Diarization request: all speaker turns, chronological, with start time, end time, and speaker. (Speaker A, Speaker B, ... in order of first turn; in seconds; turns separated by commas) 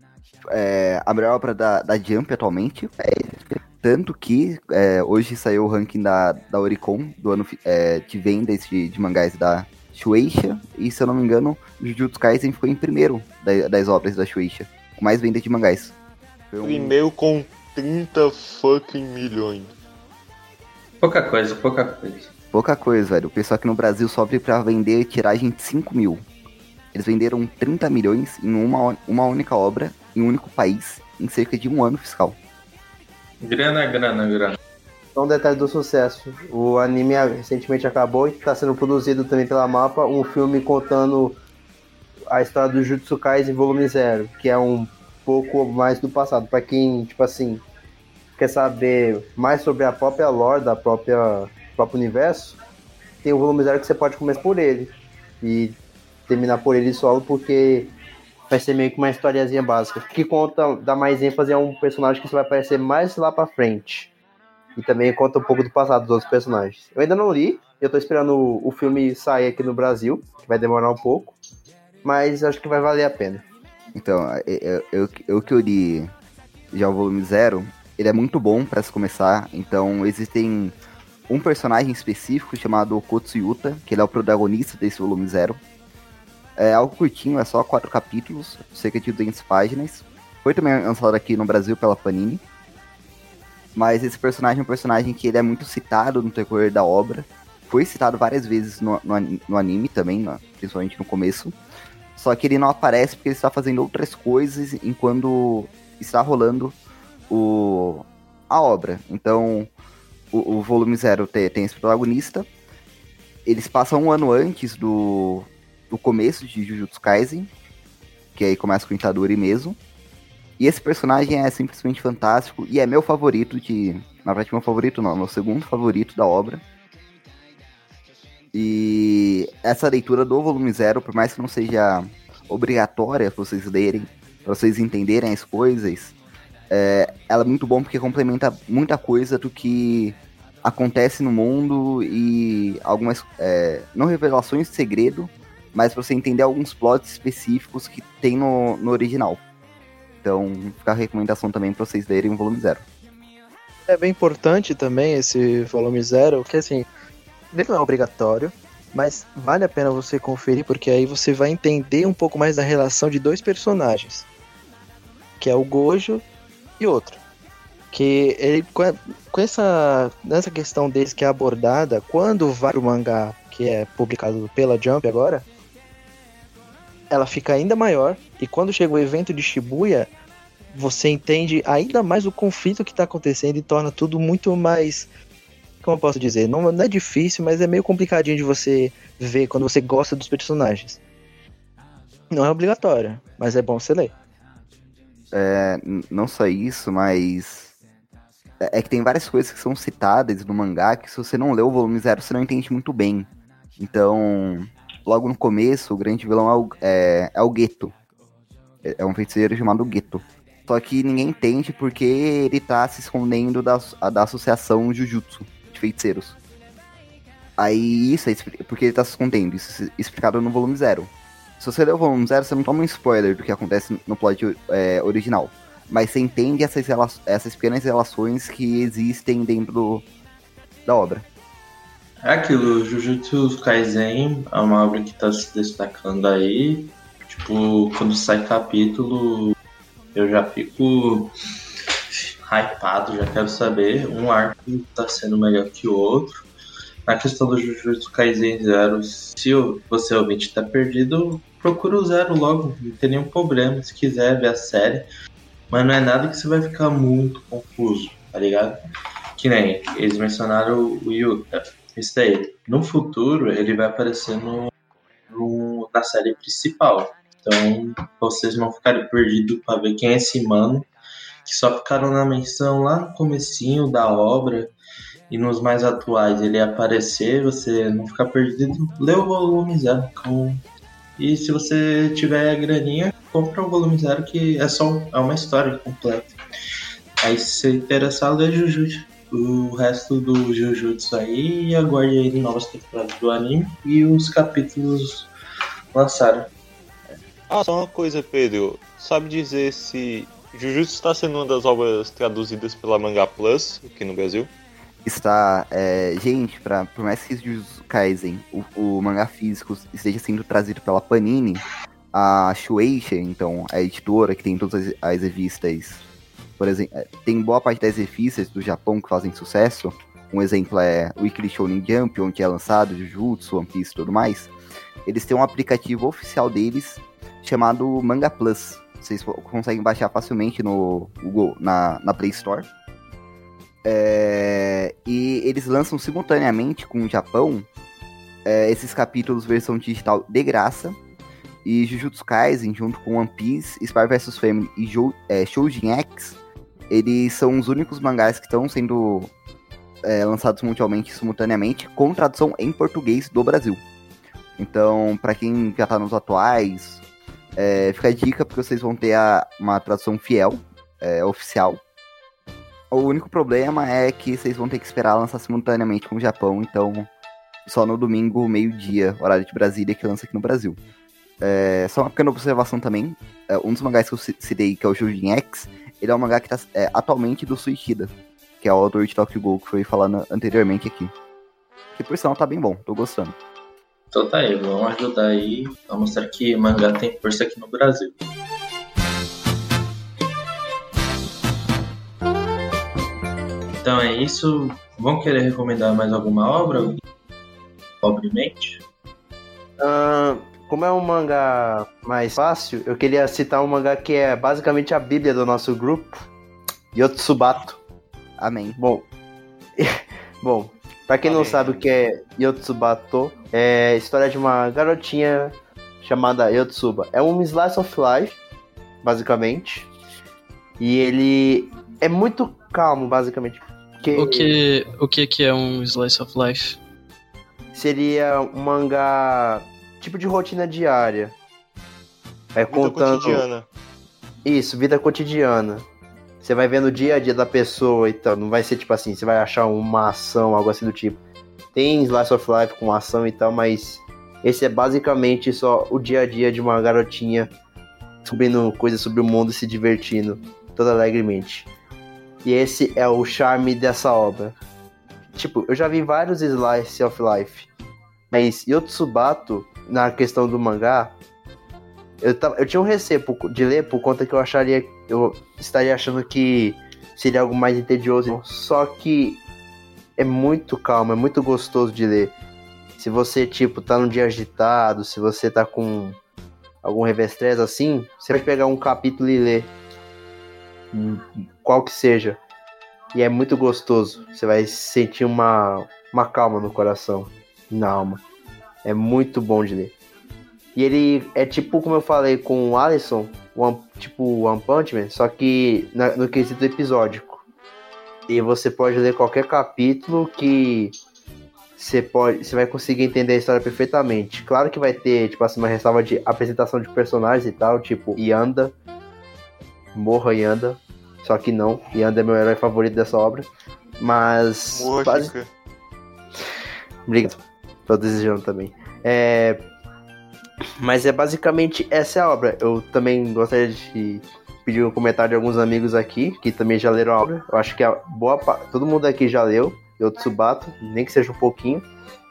Speaker A: 0.5-15.9, Speaker A: 16.5-16.9, Speaker B: 16.6-19.7, Speaker C: 21.0-22.3, Speaker A: 22.5-26.2, Speaker A: 26.9-32.4, Speaker C: 33.4-34.6, Speaker D: 35.1-41.4, Speaker D: 42.3-47.6, Speaker D: 48.4-52.6, Speaker D: 53.2-55.8, Speaker D: 56.3-57.9, Speaker D: 58.5-64.1, Speaker D: 64.8-71.3, Speaker D: 72.0-73.4, Speaker A: 73.9-76.1, Speaker A: 76.7-80.7, Speaker A: 81.3-85.6, Speaker A: 86.6-92.4, Speaker A: 93.7-101.5, Speaker A: 102.2-106.7, Speaker A: 107.3-109.7, Speaker A: 110.3-112.5, Speaker A: 113.5-117.5, Speaker A: 118.3-119.8, Speaker A: 120.6-126.6, Speaker A: 128.5-136.1, Speaker A: 136.7-149.4, Speaker A: 150.2-152.8, Speaker E: 153.9-156.9, Speaker E: 157.5-164.3, Speaker E: 165.4-166.2, Speaker E: 166.8-167.2, Speaker E: 167.9-175.4, Speaker E: 177.1-180.1, Speaker E: 180.7-185.1, Speaker E: 185.8-191.0, Speaker E: 192.3-194.1, Speaker A: 195.3-197.7, Speaker A: 198.6-207.9, Speaker A: 208.8-216.3, Speaker A: 217.6-230.0, Speaker A: 230.8-231.2, Speaker C: 232.2-239.6, Speaker C: 240.1-241.3, Speaker C: 242.1-246.3, Speaker C: 247.1-255.1, Speaker C: 255.7-258.8, Speaker C: 259.4-264.7, Speaker C: 265.3-270.9, Speaker C: 271.4-274.7, Speaker C: 275.3-280.6, Speaker C: 281.2-286.3, Speaker C: 287.2-295.3, Speaker C: 295.9-296.5, Speaker B: 297.5-304.5, Speaker A: 305.0-311.6, Speaker A: 312.1-316.0, Speaker A: 316.6-324.5, Speaker A: 325.1-332.7, Speaker A: 333.8-337.7, Speaker A: 338.4-341.0, Speaker A: 341.6-346.4, Speaker A: 346.9-349.3, Speaker A: 350.0-353.8, Speaker A: 354.6-357.0, Speaker A: 357.6-361.8, Speaker A: 362.9-367.1, Speaker A: 367.6-370.8, Speaker A: 371.4-381.1, Speaker A: 381.9-383.4, Speaker C: 384.1-388.2, Speaker C: 393.7-397.0, Speaker C: 398.0-398.8, Speaker D: 399.8-406.2, Speaker D: 406.9-407.8, Speaker A: 408.4-408.8, Speaker D: 408.8-409.0, Speaker D: 410.4-418.4, Speaker B: 411.2-411.7, Speaker D: 419.0-419.9, Speaker D: 420.8-424.6, Speaker F: 424.1-426.8, Speaker D: 427.7-431.3, Speaker D: 432.5-433.4, Speaker B: 432.7-433.7, Speaker D: 434.4-435.9, Speaker D: 436.4-441.2, Speaker D: 441.7-447.5, Speaker D: 448.2-451.7, Speaker D: 452.4-454.6, Speaker D: 455.4-457.7, Speaker D: 458.3-461.1, Speaker D: 462.2-469.4, Speaker D: 470.2-472.3, Speaker D: 473.0-476.2, Speaker D: 476.8-479.7, Speaker D: 480.9-482.4, Speaker D: 483.1-488.2, Speaker D: 488.8-489.9, Speaker D: 490.7-497.4, Speaker D: 498.3-500.9, Speaker D: 501.8-508.7, Speaker D: 509.9-513.5, Speaker D: 514.0-515.3, Speaker B: 514.7-515.5, Speaker D: 517.1-519.6, Speaker D: 520.8-531.9